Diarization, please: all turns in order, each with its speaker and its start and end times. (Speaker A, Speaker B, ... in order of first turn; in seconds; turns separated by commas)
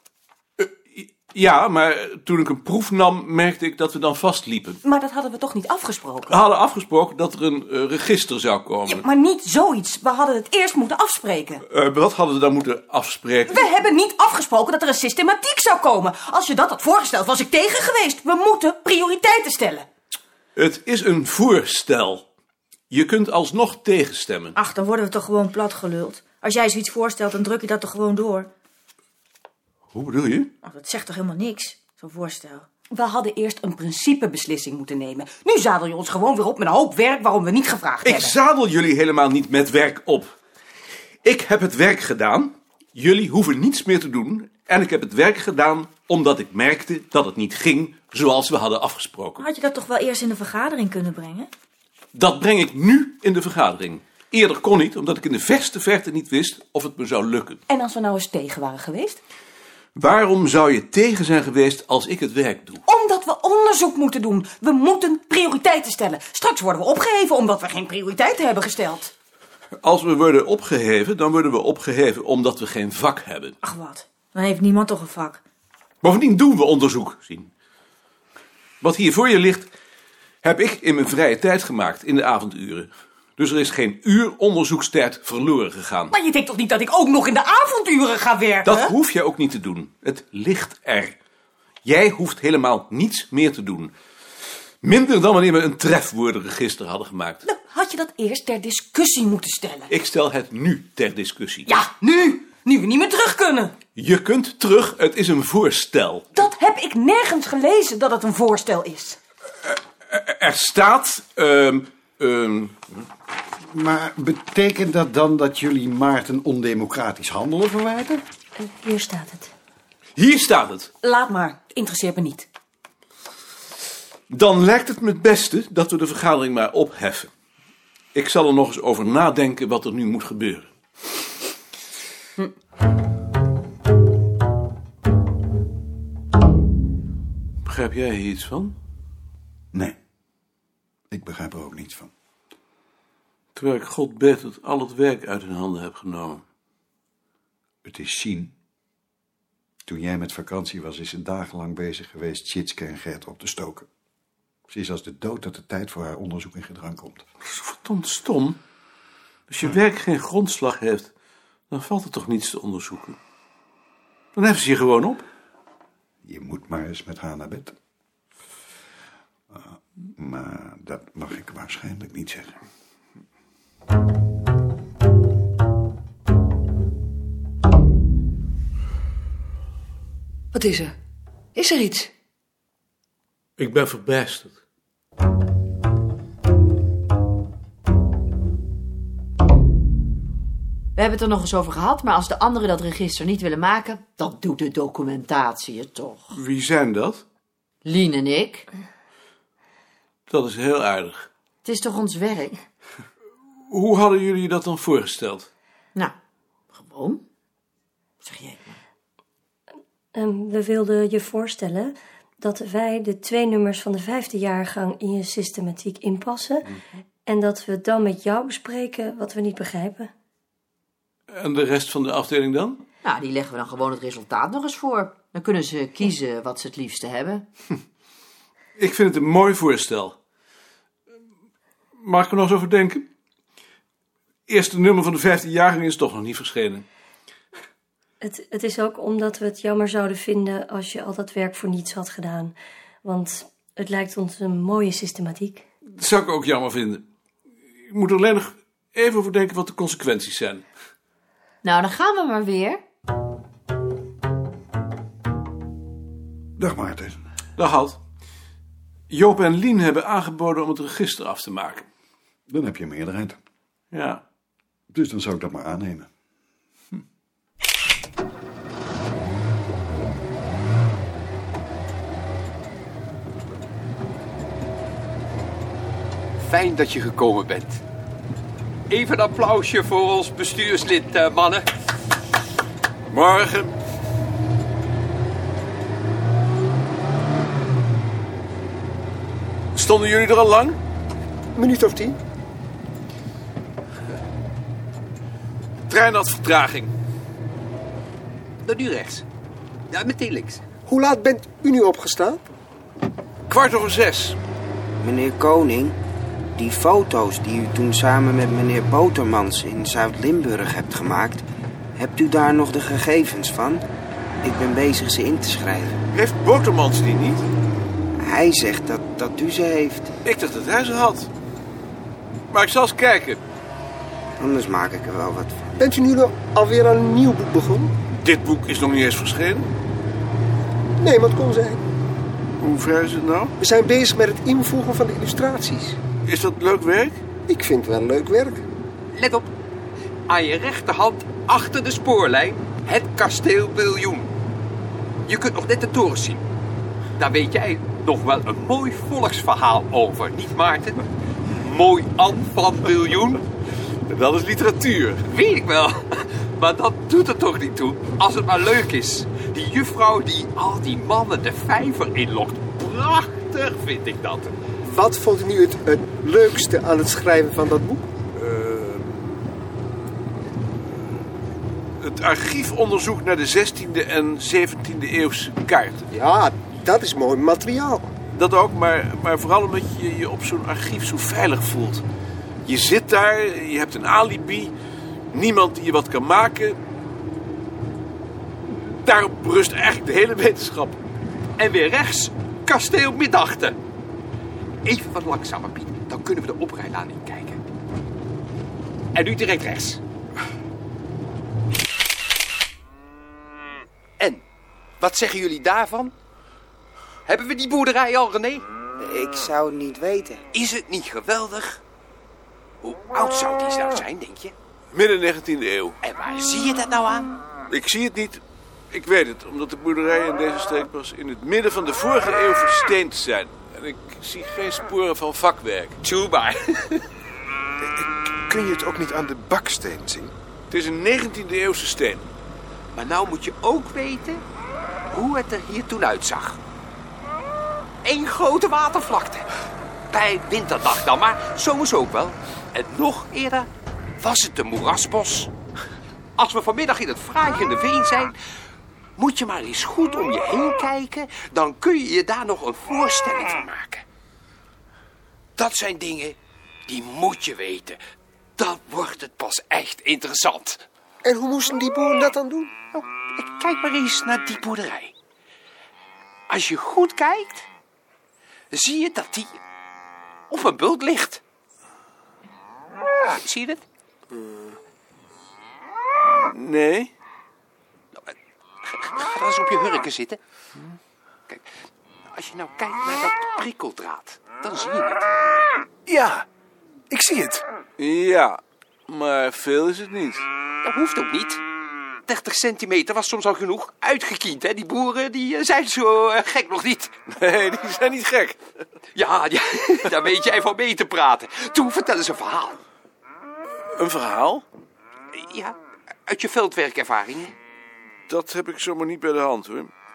Speaker A: 0.6-4.8, Speaker B: 4.8-6.4, Speaker A: 6.3-9.0, Speaker B: 8.8-11.6, Speaker A: 11.7-13.7, Speaker B: 13.5-19.9, Speaker A: 20.6-22.2, Speaker A: 22.9-24.6, Speaker C: 24.6-28.5, Speaker A: 29.9-30.5, Speaker C: 30.6-32.7, Speaker B: 32.9-38.3, Speaker A: 38.0-40.4, Speaker A: 41.2-49.5, Speaker C: 49.4-51.5, Speaker A: 52.1-57.6, Speaker B: 57.7-59.2, Speaker A: 60.0-62.8, Speaker B: 62.9-69.1, Speaker A: 69.8-73.5, Speaker B: 73.6-74.1, Speaker C: 74.2-75.4, Speaker A: 76.0-77.5, Speaker A: 78.8-79.7, Speaker A: 80.4-86.1, Speaker B: 86.1-88.9, Speaker A: 88.6-91.2, Speaker A: 91.8-93.9, Speaker A: 94.8-97.4, Speaker B: 97.4-99.9, Speaker A: 99.9-101.7, Speaker B: 101.7-103.7, Speaker A: 104.0-106.3, Speaker B: 106.3-109.2, Speaker A: 109.7-112.8, Speaker D: 113.7-118.2, Speaker E: 118.6-119.5, Speaker A: 120.2-120.9, Speaker B: 121.0-122.5, Speaker A: 124.3-127.3, Speaker A: 128.1-130.7, Speaker A: 137.6-138.7, Speaker D: 141.1-142.1, Speaker A: 143.5-146.4, Speaker D: 147.8-148.5, Speaker D: 149.8-153.9, Speaker D: 154.7-157.2, Speaker A: 157.4-158.6, Speaker A: 159.5-161.1, Speaker A: 161.7-163.2, Speaker A: 164.3-165.2, Speaker D: 166.3-167.7, Speaker D: 169.5-172.6, Speaker A: 183.6-184.6, Speaker F: 191.0-196.2, Speaker A: 196.3-197.2, Speaker F: 197.8-198.6, Speaker A: 200.3-201.3, Speaker F: 201.7-202.5, Speaker A: 203.7-205.5, Speaker F: 206.9-207.2, Speaker F: 208.2-208.7, Speaker E: 210.1-216.7, Speaker E: 217.3-220.1, Speaker A: 221.3-222.8, Speaker F: 223.0-227.4, Speaker A: 228.8-230.2, Speaker A: 232.0-233.1, Speaker A: 234.5-236.8, Speaker E: 238.2-245.7, Speaker A: 245.9-247.0, Speaker A: 247.9-250.6, Speaker F: 251.6-252.8, Speaker D: 256.6-257.2, Speaker A: 257.6-258.0, Speaker A: 259.1-261.9, Speaker D: 262.5-263.4, Speaker A: 263.9-264.2, Speaker D: 264.9-266.1, Speaker G: 276.4-277.8, Speaker G: 278.9-281.6, Speaker A: 283.1-283.7, Speaker A: 289.8-290.8, Speaker H: 291.6-292.2, Speaker A: 295.9-296.9, Speaker G: 298.6-299.2, Speaker G: 299.9-300.6, Speaker H: 300.9-302.4, Speaker A: 303.5-304.4, Speaker I: 305.0-306.0, Speaker I: 306.6-311.4, Speaker I: 312.0-313.8, Speaker I: 314.4-316.0, Speaker A: 316.1-317.4, Speaker I: 318.2-320.1, Speaker A: 320.2-321.3, Speaker A: 322.5-323.4, Speaker I: 324.4-325.8, Speaker H: 325.8-327.9, Speaker A: 328.2-329.7, Speaker H: 331.0-331.8, Speaker A: 332.6-333.5, Speaker H: 333.6-336.0, Speaker A: 336.2-337.2, Speaker H: 337.5-338.6, Speaker G: 339.1-339.5, Speaker G: 340.3-344.3, Speaker G: 345.3-346.4, Speaker G: 347.2-351.0, Speaker G: 351.6-353.4, Speaker A: 354.1-355.2, Speaker G: 355.3-364.5, Speaker H: 364.8-368.1, Speaker A: 368.4-369.1, Speaker A: 372.0-376.1, Speaker H: 376.1-378.1, Speaker A: 378.3-382.0, Speaker A: 382.6-384.7, Speaker A: 385.3-386.8, Speaker A: 388.9-391.0, Speaker G: 391.6-393.8, Speaker G: 394.9-397.6, Speaker G: 399.1-400.0, Speaker G: 405.0-406.1, Speaker G: 407.3-408.6, Speaker I: 409.0-410.4, Speaker G: 410.5-411.8, Speaker G: 412.8-414.5, Speaker A: 414.9-415.9, Speaker G: 416.0-417.3, Speaker A: 417.7-425.9, Speaker G: 426.0-427.0, Speaker J: 427.9-430.3, Speaker A: 430.7-432.3, Speaker G: 432.9-434.4, Speaker G: 435.1-436.6, Speaker G: 438.0-439.5, Speaker G: 440.1-443.7, Speaker G: 444.2-445.5, Speaker G: 446.4-448.4, Speaker G: 449.2-454.0, Speaker G: 455.6-456.4, Speaker G: 456.9-458.0, Speaker G: 458.6-460.8, Speaker H: 461.2-462.9, Speaker G: 462.9-465.1, Speaker G: 466.5-467.6, Speaker G: 468.7-469.6, Speaker G: 470.5-471.4, Speaker G: 473.2-473.8, Speaker A: 476.4-477.1, Speaker G: 478.9-480.4, Speaker G: 482.3-485.3, Speaker J: 486.1-486.4, Speaker J: 487.1-487.6, Speaker A: 488.0-490.4, Speaker G: 490.8-491.6, Speaker G: 492.3-497.1, Speaker A: 497.3-498.6, Speaker G: 499.1-502.8, Speaker A: 503.9-504.6, Speaker G: 505.3-505.8, Speaker G: 506.3-507.5, Speaker A: 508.3-509.9